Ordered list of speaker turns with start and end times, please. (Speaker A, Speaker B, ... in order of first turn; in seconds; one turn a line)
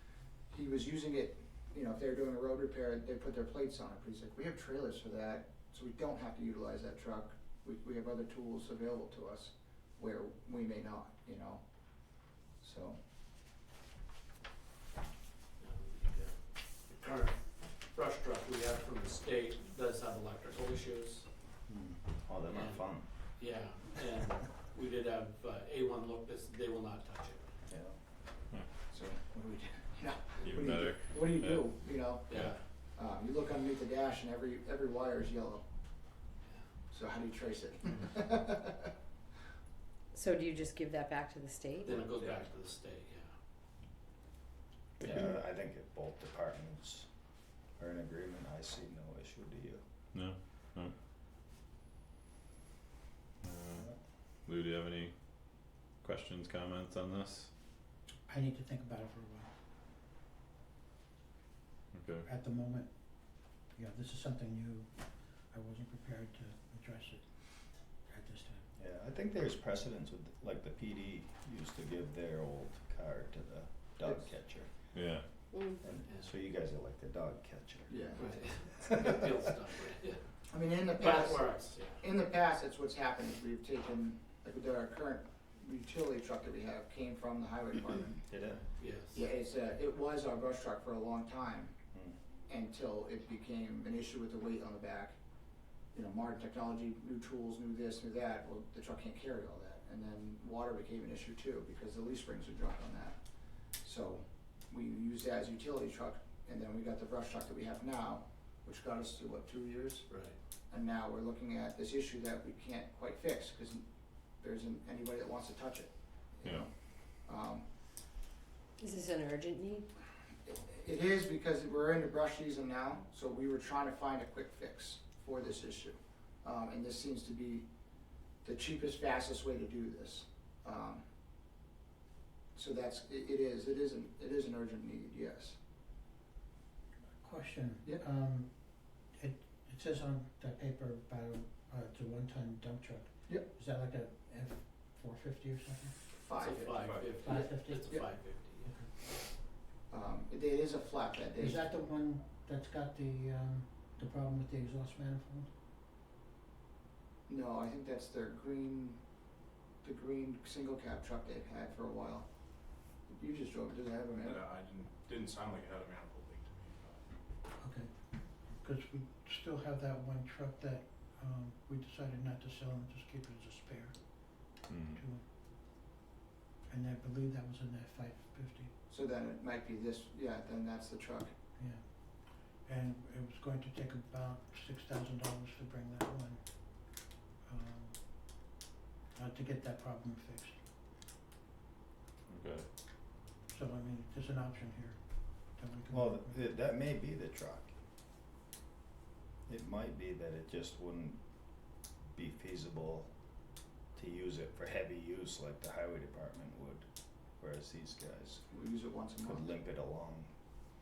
Speaker A: 0.5-13.0
Speaker B: 15.6-21.3
Speaker C: 21.7-23.7
Speaker B: 22.5-27.5
Speaker C: 27.7-27.9
Speaker A: 28.9-35.6
Speaker D: 30.4-32.5
Speaker B: 32.3-32.6
Speaker A: 36.9-38.9
Speaker E: 40.1-42.0
Speaker B: 41.8-43.4
Speaker F: 42.1-42.4
Speaker C: 45.0-47.1
Speaker C: 47.8-49.8
Speaker D: 50.1-50.9
Speaker D: 53.4-53.9
Speaker D: 54.4-55.1
Speaker D: 56.0-57.5
Speaker G: 58.3-59.5
Speaker D: 61.9-62.2
Speaker G: 62.2-67.3
Speaker G: 68.1-68.7
Speaker C: 68.8-74.9
Speaker D: 74.9-75.3
Speaker E: 75.5-75.8
Speaker C: 75.8-79.4
Speaker B: 76.0-76.3
Speaker A: 77.9-78.2
Speaker B: 78.2-80.2
Speaker A: 80.5-88.2
Speaker B: 80.8-82.0
Speaker C: 88.3-88.6
Speaker B: 88.8-89.2
Speaker A: 89.1-91.7
Speaker A: 92.5-95.1
Speaker A: 95.9-113.8
Speaker B: 110.1-110.3
Speaker A: 114.4-117.6
Speaker E: 118.8-119.8
Speaker A: 120.5-127.7
Speaker A: 128.4-131.0
Speaker A: 132.5-135.6
Speaker G: 137.2-146.0
Speaker A: 146.1-146.8
Speaker B: 146.3-148.9
Speaker F: 146.7-147.3
Speaker G: 147.2-148.2
Speaker A: 149.9-151.7
Speaker G: 151.4-155.5
Speaker A: 157.3-159.0
Speaker A: 159.8-162.3
Speaker A: 163.1-164.4
Speaker F: 164.2-167.2
Speaker G: 167.6-175.2
Speaker D: 174.6-175.0
Speaker G: 176.7-178.7
Speaker A: 178.9-181.3
Speaker G: 181.6-188.5
Speaker G: 189.1-190.6
Speaker D: 192.3-192.7
Speaker G: 193.5-196.4
Speaker C: 195.9-197.7
Speaker C: 199.5-201.2
Speaker C: 202.1-203.1
Speaker C: 203.9-206.9
Speaker C: 207.4-208.4
Speaker A: 208.5-209.4
Speaker C: 209.2-210.3